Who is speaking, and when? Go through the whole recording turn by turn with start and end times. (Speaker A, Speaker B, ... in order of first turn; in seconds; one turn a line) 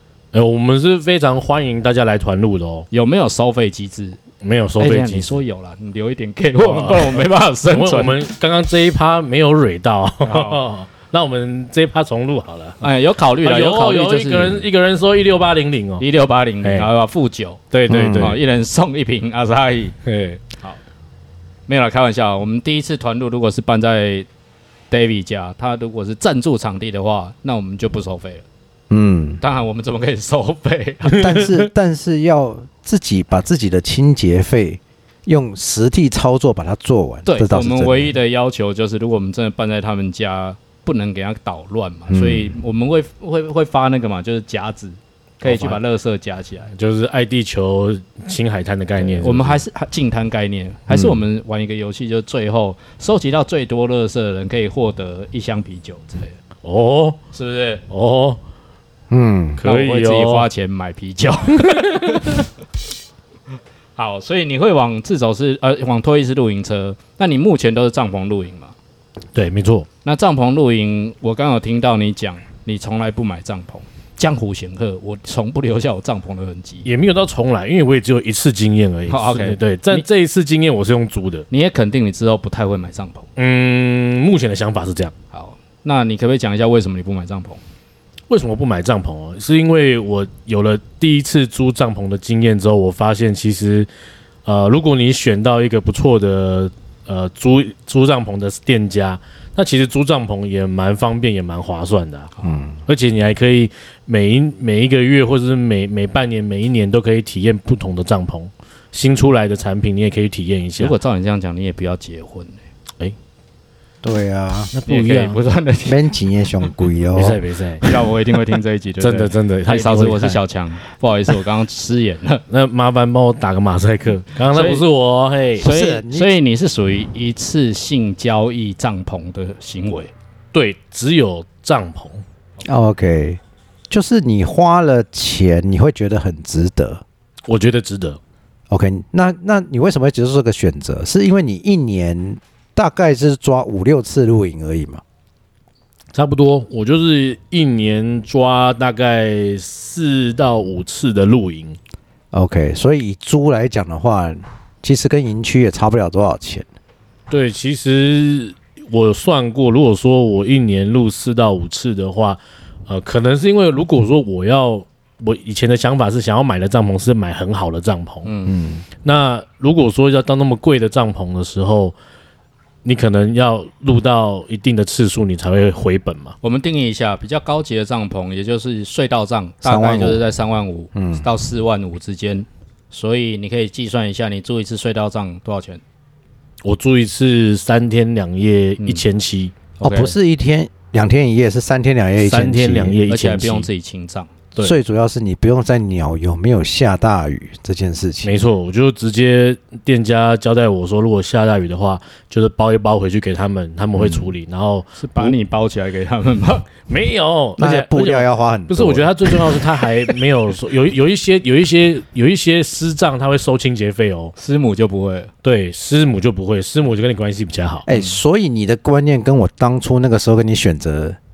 Speaker A: 0.3-2.9
Speaker B: 2.9-4.2
Speaker A: 4.4-5.4
Speaker B: 4.8-8.1
Speaker A: 6.6-12.8
Speaker B: 10.2-10.6
Speaker B: 12.8-14.6
Speaker A: 13.4-16.0
Speaker B: 16.0-19.9
Speaker A: 16.6-16.9
Speaker A: 17.7-18.4
Speaker C: 17.9-18.4
Speaker A: 20.0-20.4
Speaker B: 21.7-24.3
Speaker B: 24.9-28.4
Speaker C: 28.9-29.4
Speaker B: 29.4-31.3
Speaker C: 31.1-38.1
Speaker B: 37.2-46.7
Speaker C: 42.1-42.5
Speaker A: 45.4-45.8
Speaker A: 46.7-49.6
Speaker B: 49.0-56.4
Speaker C: 50.9-51.2
Speaker A: 56.6-57.2
Speaker B: 57.3-57.8
Speaker A: 57.9-58.4
Speaker C: 59.1-59.6
Speaker A: 59.6-60.5
Speaker B: 59.6-62.5
Speaker A: 61.6-62.4
Speaker B: 64.0-68.7
Speaker A: 69.3-69.9
Speaker B: 70.0-76.9
Speaker A: 76.8-81.5
Speaker B: 79.1-80.0
Speaker B: 81.5-83.3
Speaker A: 83.4-85.1
Speaker B: 85.3-87.6
Speaker A: 88.3-93.9
Speaker A: 94.4-102.3
Speaker C: 102.4-102.8
Speaker A: 102.8-110.9
Speaker B: 110.8-112.6
Speaker C: 114.0-114.7
Speaker A: 114.7-115.4
Speaker B: 114.9-116.0
Speaker C: 115.8-117.4
Speaker A: 117.1-117.8
Speaker B: 117.8-122.4
Speaker A: 119.0-120.4
Speaker A: 122.5-125.7
Speaker B: 124.5-124.8
Speaker B: 125.6-130.1
Speaker C: 125.6-126.3
Speaker A: 130.5-132.2
Speaker C: 132.6-137.0
Speaker A: 137.5-138.2
Speaker C: 138.7-145.0
Speaker A: 146.1-151.8
Speaker C: 152.3-156.7
Speaker A: 157.3-168.3
Speaker B: 168.2-168.6
Speaker C: 168.5-168.8
Speaker A: 169.0-171.9
Speaker A: 172.8-176.4
Speaker B: 176.4-185.8
Speaker C: 179.6-180.2
Speaker C: 180.9-181.3
Speaker A: 186.6-189.5
Speaker B: 188.8-189.1
Speaker B: 189.8-190.1
Speaker C: 189.8-193.0
Speaker A: 192.2-193.7
Speaker B: 193.1-194.7
Speaker C: 194.6-198.4
Speaker A: 198.2-205.3
Speaker C: 203.9-204.3
Speaker B: 205.0-206.7
Speaker A: 206.9-214.3
Speaker C: 207.6-209.6
Speaker B: 214.3-215.3
Speaker A: 215.4-217.8
Speaker C: 217.8-221.2
Speaker B: 217.9-218.1